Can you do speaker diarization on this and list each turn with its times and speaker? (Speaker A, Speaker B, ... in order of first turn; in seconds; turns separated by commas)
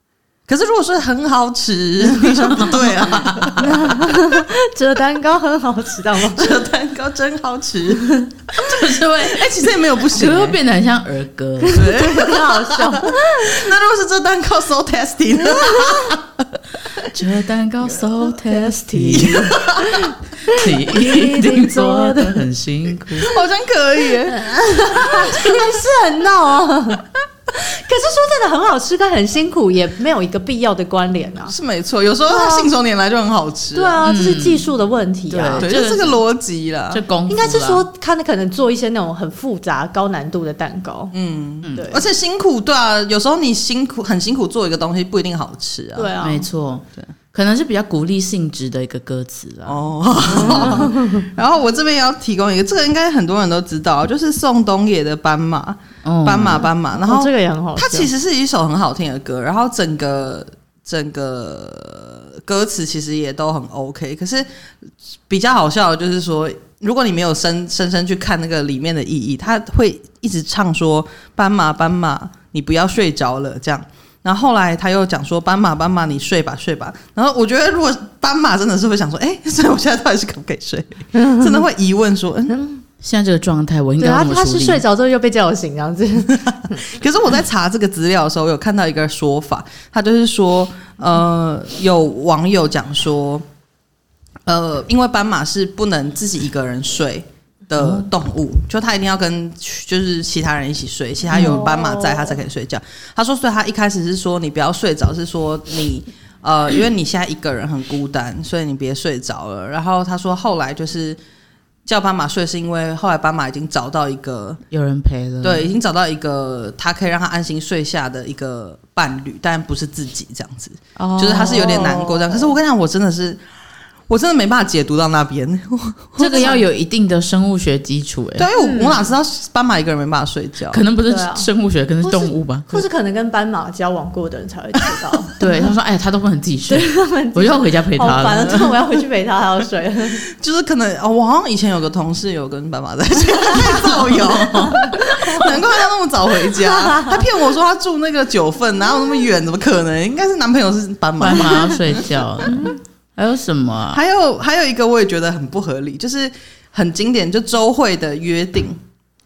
Speaker A: 0.5-4.2, Speaker B: 2.3-3.6, Speaker C: 3.6-6.6, Speaker A: 6.3-10.6, Speaker B: 8.6-11.9, Speaker C: 11.6-13.7, Speaker A: 11.7-17.1, Speaker B: 17.0-19.6, Speaker C: 18.4-22.4, Speaker A: 19.1-20.0, Speaker B: 20.5-23.3, Speaker A: 23.2-25.6, Speaker C: 24.3-31.6, Speaker A: 31.5-34.0, Speaker C: 32.3-32.7, Speaker C: 33.7-35.7, Speaker B: 34.0-34.7, Speaker B: 35.3-36.2, Speaker A: 35.6-37.0, Speaker B: 36.9-37.8, Speaker C: 37.3-41.1, Speaker A: 41.1-46.1, Speaker C: 41.8-42.0, Speaker C: 46.0-46.5, Speaker B: 46.2-50.9, Speaker A: 49.7-64.5, Speaker C: 50.3-51.2, Speaker B: 56.0-56.7, Speaker C: 57.0-58.1, Speaker A: 65.3-82.5, Speaker C: 81.2-81.6, Speaker C: 82.5-82.8, Speaker B: 83.0-84.8, Speaker C: 84.0-86.8, Speaker A: 86.7-93.5, Speaker A: 94.5-111.2, Speaker B: 97.8-98.1, Speaker C: 101.3-102.4, Speaker A: 111.9-114.6, Speaker B: 114.7-115.7, Speaker A: 115.4-123.4, Speaker B: 121.0-121.8, Speaker C: 121.4-122.5, Speaker A: 124.1-126.6, Speaker B: 126.2-128.5, Speaker C: 126.3-126.6, Speaker A: 128.4-130.8, Speaker C: 128.6-129.1, Speaker B: 130.7-132.8, Speaker C: 131.1-131.5, Speaker C: 132.0-135.4, Speaker B: 135.4-138.7, Speaker C: 136.7-140.2, Speaker A: 140.3-152.1, Speaker C: 144.7-145.5, Speaker C: 146.5-147.2, Speaker B: 151.2-154.0, Speaker C: 152.5-152.8, Speaker A: 153.9-158.8